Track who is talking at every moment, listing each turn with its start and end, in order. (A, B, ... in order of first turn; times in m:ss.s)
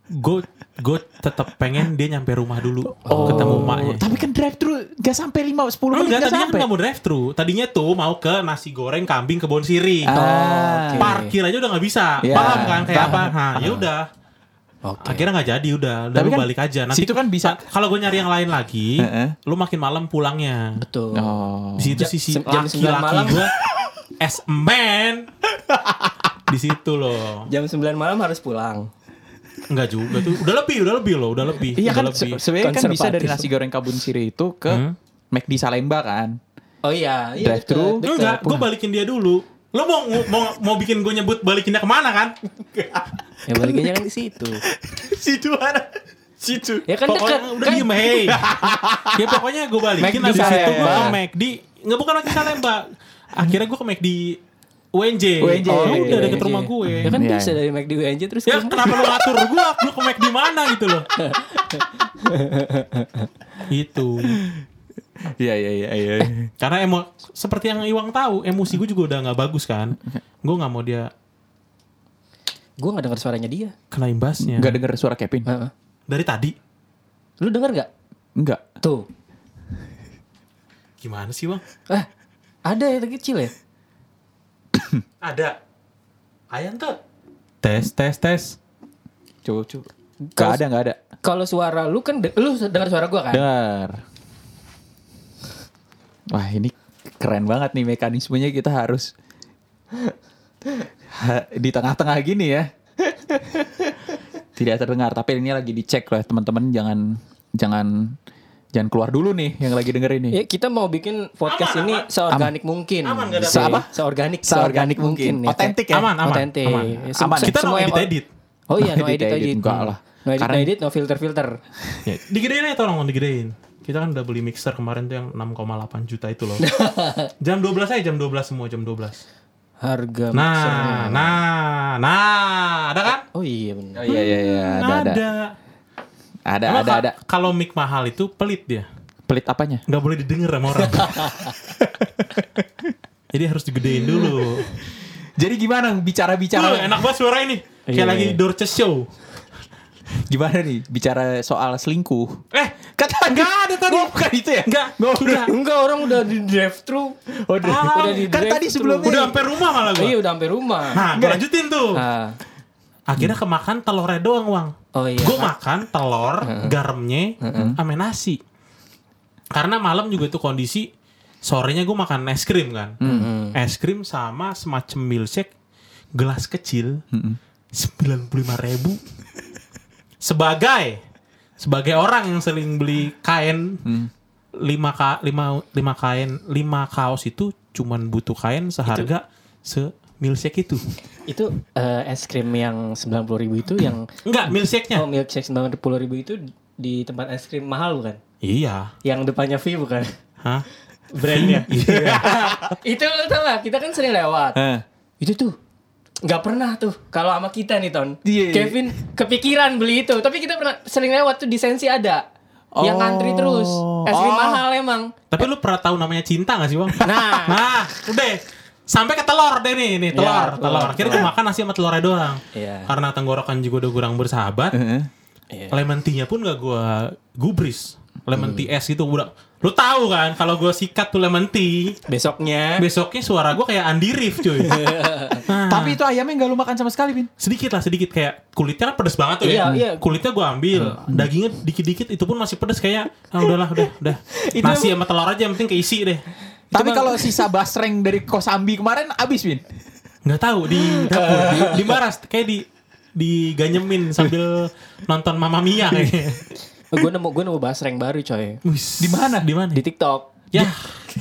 0:00.1-0:04.1 A
0:03.0-0:03.7 B
0:03.0-0:06.7 C
0:05.9-0:10.1 A
0:10.0-0:11.1 C
0:10.1-0:11.3 B
0:11.0-0:14.0 A
0:12.2-0:13.9 C
0:12.3-0:13.1 B
0:14.8-0:15.3 B
0:15.0-0:20.8 A
0:16.1-0:17.6 C
0:19.0-0:19.4 C
0:20.8-0:21.4 B
0:21.1-0:22.1 C
0:21.8-0:23.5 A
0:22.0-0:23.4 B
0:24.2-0:25.3 A
0:25.7-0:26.3 C
0:26.5-0:27.5 A
0:27.5-0:28.9 B
0:29.7-0:32.4 A
0:31.7-0:36.4 C
0:32.6-0:33.5 B
0:34.7-0:34.9 A
0:36.8-0:38.6 B
0:37.4-0:38.6 C
0:38.0-0:42.3 A
0:42.9-0:44.0 C
0:43.4-0:44.6 B
0:44.7-0:46.9 C
0:46.9-0:47.9 B
0:47.1-0:48.5 A
0:48.2-0:49.4 C
0:49.1-0:54.4 A
0:50.0-0:51.2 B
0:50.2-0:51.2 C
0:54.9-0:57.1 A
0:55.4-0:57.6 C
0:55.6-0:59.2 B
0:58.5-1:01.1 A
1:01.1-1:03.3 B
1:03.7-1:04.4 A
1:04.3-1:04.6 C
1:05.2-1:06.5 C
1:06.6-1:11.1 A
1:12.8-1:13.7 B
1:13.9-1:14.8 A
1:14.4-1:15.4 C
1:15.4-1:15.7 B
1:16.1-1:16.5 A
1:17.4-1:17.9 B
1:18.4-1:18.6 C
1:18.8-1:19.1 B
1:21.0-1:21.6 A
1:22.6-1:23.5 B
1:24.7-1:25.0 C
1:25.2-1:25.6 A
1:26.5-1:27.0 A
1:27.6-1:28.6 A
1:29.4-1:31.0 C
1:30.3-1:30.6 B
1:31.2-1:33.4 B
1:33.3-1:34.0 C
1:36.3-1:39.1 C
1:41.1-1:43.9 C
1:44.6-1:48.2 C
1:48.7-1:50.4 C
1:50.3-1:58.1 B
1:51.5-1:52.1 A
1:53.0-1:53.8 A
1:53.4-1:53.9 C
1:54.4-1:56.1 C
1:55.9-1:58.3 A
1:57.1-1:57.5 C
1:58.7-2:01.6 B
1:58.8-2:00.7 C
2:01.9-2:02.2 C
2:02.1-2:06.6 A
2:06.6-2:07.3 B
2:07.4-2:09.2 A
2:09.8-2:11.4 B
2:10.3-2:13.2 A
2:13.3-2:14.0 B
2:13.9-2:15.2 C
2:14.1-2:15.5 A
2:16.4-2:17.1 C
2:16.7-2:18.8 A
2:19.3-2:19.8 C
2:19.9-2:21.3 A
2:20.9-2:21.6 B
2:21.8-2:22.6 C
2:23.3-2:24.8 A
2:23.9-2:24.4 C
2:25.2-2:27.1 C
2:26.5-2:29.1 A
2:27.9-2:28.4 B
2:30.3-2:32.4 C
2:32.5-2:35.5 A
2:33.0-2:35.5 C
2:35.4-2:37.2 B
2:37.3-2:39.4 C
2:37.6-2:38.2 A
2:37.8-2:41.0 B
2:39.0-2:40.2 A
2:40.9-2:42.0 A
2:41.1-2:41.4 C
2:41.9-2:42.4 B
2:43.1-2:48.4 A
2:44.9-2:45.5 B
2:46.4-2:46.8 B
2:47.4-2:47.8 B
2:49.5-2:50.9 A
2:51.4-2:53.0 A
2:53.0-2:53.3 C
2:53.0-2:53.6 B
2:53.5-2:55.5 A
2:56.1-2:57.0 A
2:57.1-2:57.4 C
2:57.7-2:59.0 A
3:00.2-3:01.0 A
3:01.6-3:03.8 A
3:03.8-3:04.1 C
3:04.6-3:10.8 A
3:11.2-3:14.0 B
3:14.2-3:15.0 A
3:14.9-3:18.2 B
3:18.4-3:18.9 A
3:19.0-3:20.1 B
3:21.1-3:24.6 B
3:21.3-3:22.4 A
3:21.7-3:22.5 C
3:24.5-3:24.8 C
3:25.2-3:25.6 B
3:26.2-3:32.2 B
3:28.2-3:28.9 C
3:32.8-3:34.6 C
3:32.8-3:35.2 B
3:35.3-3:44.8 A
3:37.0-3:37.6 B
3:40.1-3:41.3 B
3:42.5-3:42.9 B
3:44.7-3:45.1 C
3:45.5-3:45.8 B
3:45.7-3:52.0 A
3:52.1-3:52.8 B
3:52.8-3:54.9 A
3:54.6-3:55.4 B
3:55.4-3:56.0 A
3:55.7-3:57.3 C
3:57.4-4:06.2 A
3:59.4-4:00.0 B
4:01.0-4:01.3 C
4:04.3-4:04.9 B
4:06.7-4:07.4 B
4:06.7-4:09.6 C
4:10.2-4:16.5 A
4:10.8-4:12.0 B
4:16.9-4:18.6 B
4:18.6-4:19.8 A
4:19.0-4:19.5 C
4:19.7-4:20.3 B
4:20.5-4:20.9 A